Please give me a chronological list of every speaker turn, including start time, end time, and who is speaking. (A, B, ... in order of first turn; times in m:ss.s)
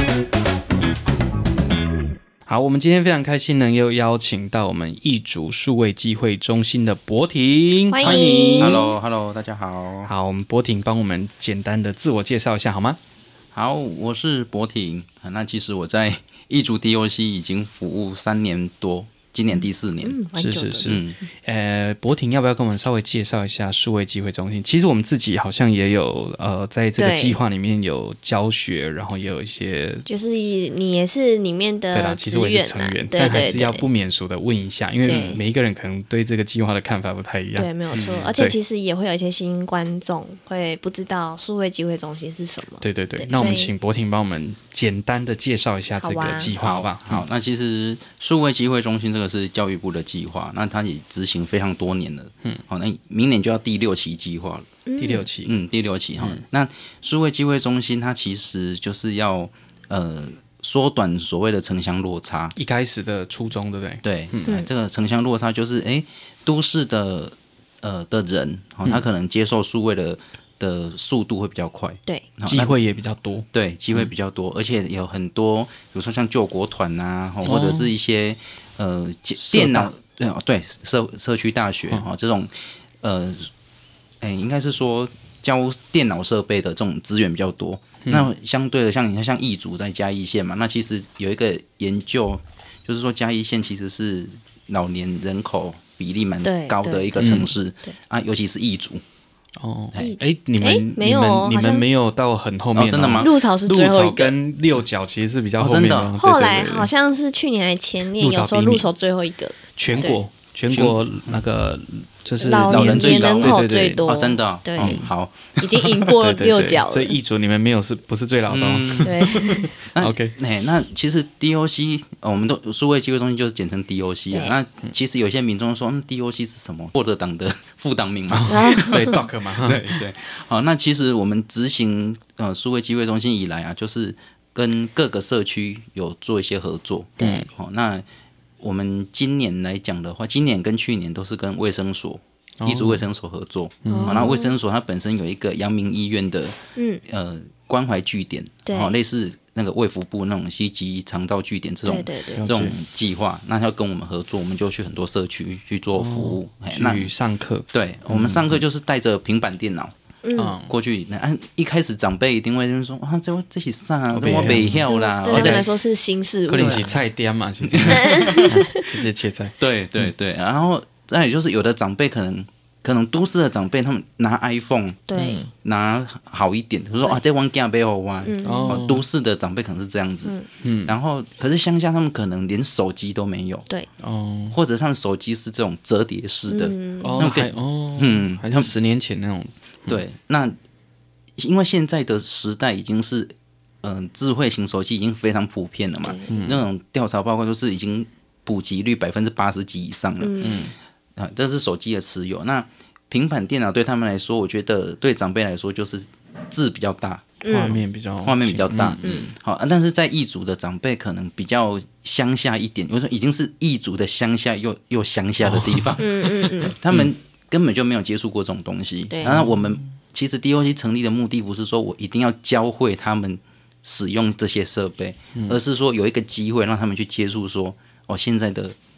0:02.4-0:08.8 A
0:07.9-0:09.0 B
0:08.0-0:10.1 C
0:10.0-0:13.0 A
0:13.5-0:20.2 C
0:20.0-0:21.0 B
0:20.4-0:30.0 A
0:20.8-0:21.2 C
0:27.0-0:27.4 B
0:30.1-0:33.8 B
0:31.9-0:37.7 A
0:35.0-0:35.4 B
0:37.6-0:43.7 B
0:37.9-0:38.3 C
0:42.8-0:47.2 A
0:46.0-0:46.5 B
0:46.6-0:54.7 C
0:54.8-0:55.2 B
0:55.0-0:55.6 A
0:55.4-1:02.5 C
0:56.2-0:56.4 A
1:02.6-1:04.6 A
1:04.0-1:12.7 C
1:12.4-1:14.1 A
1:13.5-1:23.5 C
1:17.4-1:17.9 A
1:19.4-1:19.9 A
1:24.2-1:39.0 C
1:28.0-1:28.3 A
1:36.4-1:37.3 B
1:37.2-1:37.5 A
1:39.6-1:46.9 A
1:40.0-1:41.8 B
1:42.7-1:43.3 C
1:43.2-1:44.3 B
1:45.6-1:46.1 C
1:46.2-1:50.2 B
1:48.1-1:48.9 A
1:49.8-1:54.0 A
1:50.7-1:51.3 C
1:52.4-1:57.2 B
1:52.7-1:56.4 C
1:56.2-2:00.3 A
1:58.5-2:18.0 C
1:59.0-1:59.7 B
2:04.3-2:04.6 B
2:08.3-2:10.0 A
2:08.5-2:09.2 B
2:17.2-2:17.4 B
2:17.2-2:17.5 A
2:18.6-2:37.1 C
2:22.6-2:23.1 A
2:23.8-2:24.3 A
2:23.9-2:24.5 B
2:26.8-2:27.0 B
2:28.6-2:28.9 B
2:31.8-2:32.4 B
2:32.3-2:32.8 A
2:35.9-2:38.6 A
2:37.7-2:39.9 C
2:40.2-2:40.6 B
2:40.4-2:40.7 A
2:40.7-2:45.7 C
2:44.1-2:45.7 A
2:44.3-2:46.9 B
2:46.5-2:50.1 A
2:46.5-2:46.9 C
2:47.6-2:48.6 C
2:47.9-2:48.9 B
2:49.6-3:00.3 C
2:55.1-2:55.4 B
2:55.1-2:55.5 A
2:58.2-2:58.8 B
2:58.4-2:59.0 A
3:00.6-3:01.0 A
3:00.8-3:03.7 C
3:04.0-3:04.6 A
3:04.5-3:08.7 C
3:06.5-3:07.2 B
3:07.0-3:10.0 A
3:09.9-3:10.6 C
3:11.4-3:20.4 C
3:16.0-3:16.4 B
3:16.3-3:16.6 A
3:20.2-3:20.6 B
3:20.4-3:20.7 A
3:21.2-3:48.8 C
3:27.4-3:27.8 B
3:27.5-3:29.3 A
3:29.0-3:29.3 B
3:35.4-3:37.1 A
3:36.0-3:36.8 B
3:39.1-3:39.4 B
3:39.3-3:39.7 A